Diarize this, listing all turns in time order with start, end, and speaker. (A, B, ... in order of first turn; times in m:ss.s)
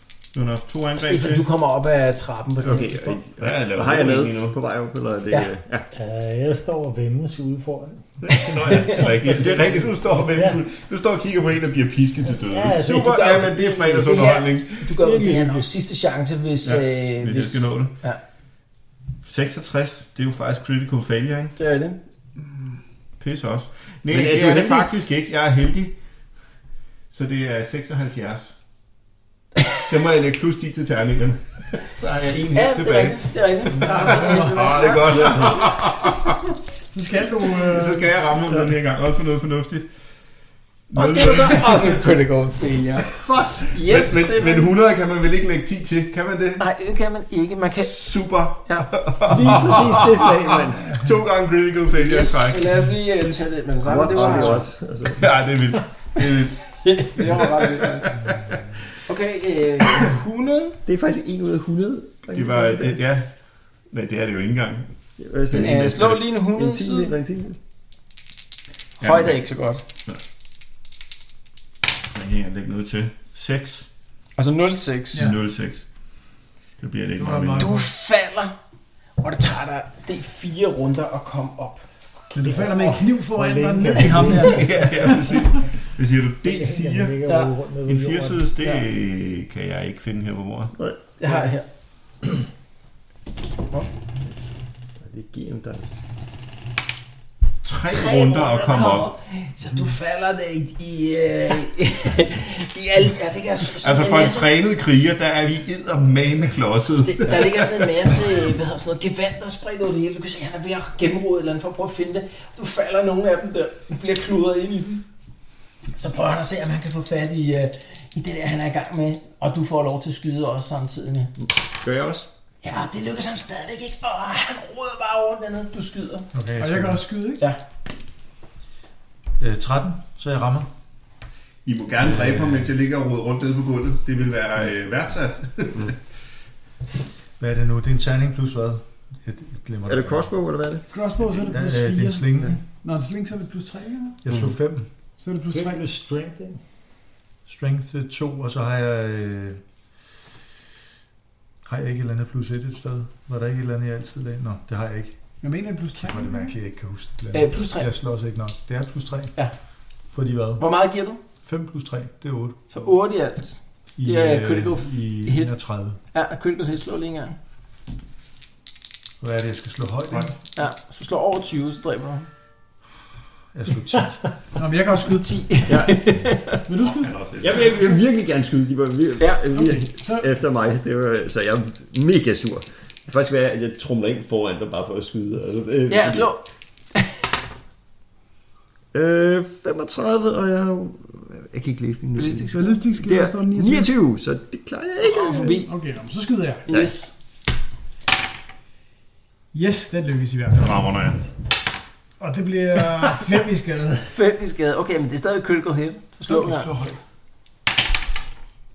0:00.3-0:01.5 A
0:01.0-0:03.2 B
0:02.6-0:05.9 C
0:03.4-0:04.6 A
0:05.9-0:10.6 D
0:08.4-0:14.9 A
0:12.3-0:13.3 D
0:12.8-0:18.2 B
0:15.0-0:15.7 D
0:16.6-0:17.9 A
0:19.2-0:21.5 A
0:21.6-0:22.0 B
0:23.2-0:26.0 A
0:24.1-0:24.9 C
0:27.1-0:28.6 A
0:29.8-0:36.4 A
0:32.5-0:35.6 B
0:33.7-0:34.9 E
0:35.2-0:35.6 C
0:36.9-0:38.2 E
0:37.6-0:39.9 A
0:40.9-0:42.0 A
0:40.9-0:44.7 B
0:43.1-0:46.6 A
0:46.6-0:48.1 B
0:47.9-0:52.8 A
0:48.6-0:50.8 B
0:49.6-0:51.0 C
0:51.9-0:54.6 B
0:53.8-0:55.2 C
0:54.2-0:54.6 A
0:55.2-0:58.3 A
0:56.7-0:58.1 B
0:59.0-1:00.8 B
1:00.8-1:03.0 C
1:02.3-1:03.3 A
1:03.9-1:04.9 A
1:05.2-1:07.6 C
1:05.5-1:06.3 A
1:05.5-1:07.1 B
1:09.0-1:09.4 A
1:09.0-1:09.8 B
1:12.1-1:13.9 A
1:14.4-1:15.2 B
1:15.1-1:15.8 A
1:16.8-1:17.8 A
1:17.2-1:17.9 E
1:17.5-1:18.6 B
1:19.2-1:22.7 B
1:22.3-1:24.7 D
1:22.4-1:25.4 E
1:24.4-1:27.2 A
1:26.4-1:28.4 D
1:27.2-1:27.5 B
1:27.8-1:30.7 A
1:30.8-1:31.1 C
1:31.2-1:31.6 B
1:35.0-1:36.0 C
1:37.6-1:39.1 A
1:37.9-1:44.5 B
1:43.8-1:48.4 A
1:47.0-1:55.0 B
1:55.9-2:01.3 B
2:01.4-2:02.3 C
2:02.6-2:06.3 B
2:06.3-2:07.0 F
2:06.6-2:07.4 E
2:09.4-2:10.7 F
2:11.6-2:16.0 A
2:12.0-2:12.7 F
2:17.4-2:20.2 F
2:19.9-2:20.8 C
2:20.9-2:24.3 E
2:21.3-2:22.6 F
2:24.2-2:24.9 F
2:25.2-2:25.8 E
2:25.5-2:26.6 D
2:27.4-2:29.6 F
2:31.6-2:35.2 F
2:35.4-2:36.5 E
2:36.0-2:39.4 F
2:37.3-2:37.9 B
2:40.1-2:40.6 F
2:40.6-2:41.2 B
2:41.4-2:42.6 F
2:42.7-2:47.4 B
2:44.0-2:46.0 F
2:49.2-2:50.4 F
2:50.5-2:52.3 B
2:53.5-2:54.3 F
2:54.5-2:55.6 E
2:55.2-2:56.6 B
2:55.7-2:56.3 C
2:56.6-2:57.2 E
2:56.8-2:57.8 A
2:57.4-3:06.3 C
2:59.2-2:59.5 B
2:59.5-3:00.3 E
3:05.9-3:07.3 B
3:08.9-3:15.4 C
3:12.1-3:12.8 B
3:12.5-3:13.9 E
3:15.0-3:15.7 B
3:15.2-3:16.7 E
3:16.7-3:17.1 B
3:19.5-3:20.9 E
3:20.6-3:21.2 A
3:22.2-3:24.1 E
3:24.1-3:26.7 B
3:26.5-3:26.9 F